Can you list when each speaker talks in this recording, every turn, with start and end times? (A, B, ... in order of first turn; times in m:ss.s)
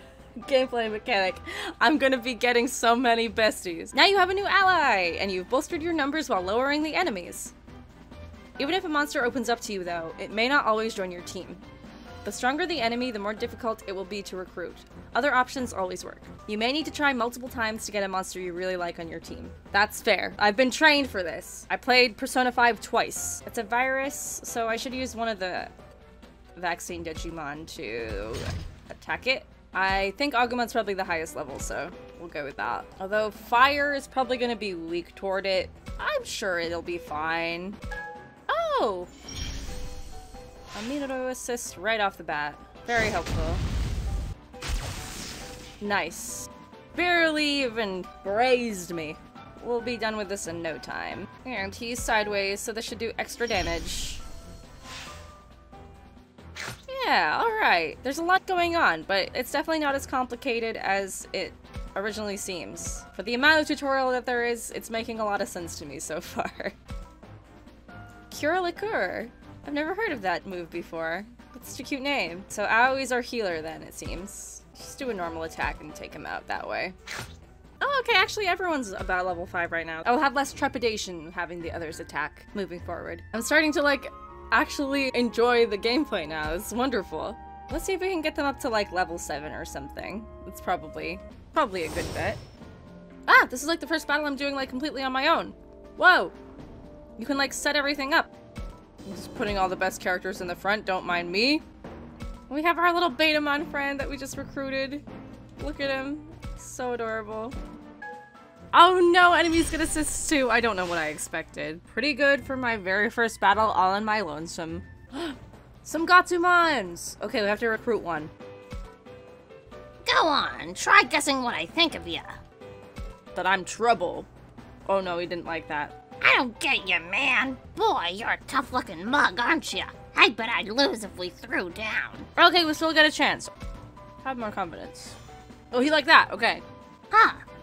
0:00.4-0:07.5 A
0:08.6-0:11.6 A
0:12.2-0:25.7 A
0:26.6-0:37.8 A
0:38.5-0:39.1 A
0:40.7-0:43.6 A
0:45.8-0:54.2 A
0:56.9-1:06.8 A
1:08.3-1:17.0 A
1:17.8-1:32.4 A
1:33.3-1:36.3 A
1:37.2-1:38.3 A
1:39.0-1:41.6 A
1:42.5-1:45.0 A
1:45.6-1:47.5 A
1:48.7-1:58.3 A
2:00.0-2:02.4 B
2:03.3-2:04.3 A
2:04.8-2:06.0 A
2:06.2-2:12.3 B
2:12.4-2:13.5 A
2:14.2-2:15.2 A
2:15.7-2:16.6 A
2:17.1-2:17.4 B